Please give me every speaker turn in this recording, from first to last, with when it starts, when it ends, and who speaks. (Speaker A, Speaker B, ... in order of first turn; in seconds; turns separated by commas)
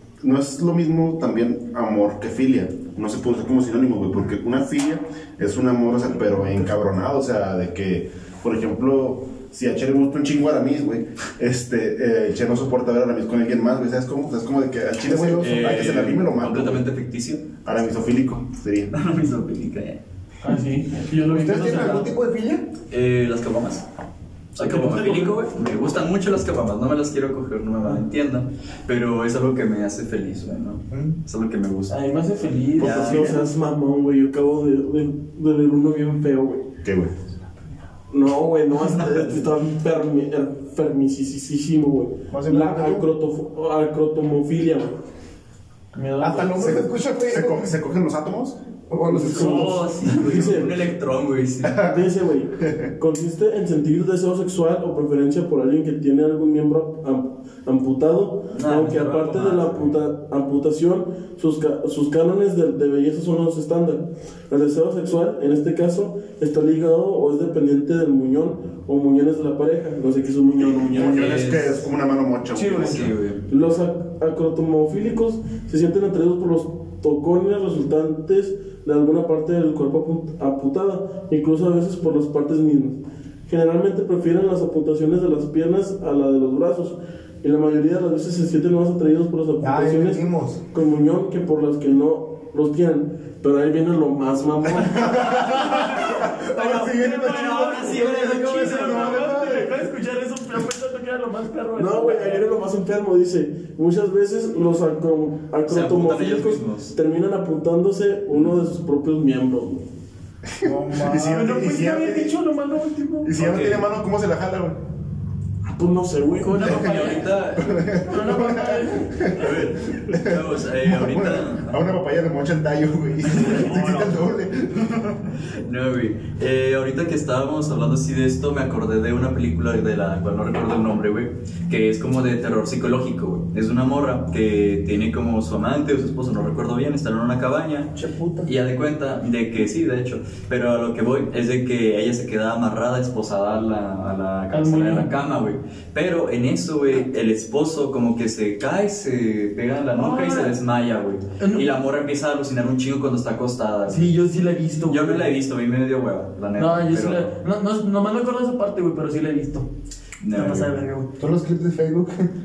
Speaker A: 0.2-16.8, Speaker B: 15.0-15.9, Speaker C: 15.4-17.7, Speaker A: 17.6-18.9, Speaker C: 18.9-20.0, Speaker D: 20.4-22.1, Speaker B: 21.2-22.7, Speaker C: 22.9-23.8, Speaker C: 24.6-31.9, Speaker D: 24.6-25.4, Speaker B: 30.9-31.2, Speaker D: 31.9-33.5, Speaker C: 32.8-33.4, Speaker E: 32.8-36.7, Speaker A: 36.8-37.1, Speaker E: 38.1-44.9, Speaker C: 38.8-39.4, Speaker B: 42.3-43.0, Speaker D: 45.9-46.8, Speaker B: 46.2-47.7, Speaker A: 46.6-48.6, Speaker B: 48.9-49.8, Speaker E: 49.0-50.8, Speaker D: 49.2-50.5, Speaker C: 49.3-51.9, Speaker A: 51.7-52.0, Speaker E: 51.7-71.2, Speaker C: 58.5-59.8, Speaker A: 70.8-73.1, Speaker C: 71.0-71.8, Speaker C: 72.5-73.4, Speaker D: 72.6-73.0, Speaker E: 73.5-95.3, Speaker B: 89.6-90.6, Speaker A: 94.8-99.8, Speaker D: 95.0-102.5, Speaker C: 97.3-99.1, Speaker E: 98.3-98.9, Speaker E: 101.8-109.8, Speaker C: 105.7-106.9, Speaker A: 110.5-112.4, Speaker B: 110.6-111.5, Speaker D: 111.2-113.3, Speaker A: 113.2-114.8, Speaker C: 113.3-113.9, Speaker E: 115.6-117.0, Speaker D: 116.5-117.3, Speaker C: 116.5-117.9, Speaker A: 117.5-125.0, Speaker D: 118.0-119.4, Speaker C: 119.3-121.8, Speaker D: 123.3-124.0, Speaker C: 123.5-124.1, Speaker C: 124.8-137.9, Speaker B: 137.9-138.5, Speaker C: 138.4-154.2, Speaker D: 144.5-145.1, Speaker D: 149.9-150.5, Speaker D: 151.4-151.6, Speaker D: 153.9-155.3, Speaker C: 154.9-157.3, Speaker D: 156.6-159.7, Speaker C: 160.2-160.8, Speaker D: 160.3-161.1, Speaker B: 161.2-162.3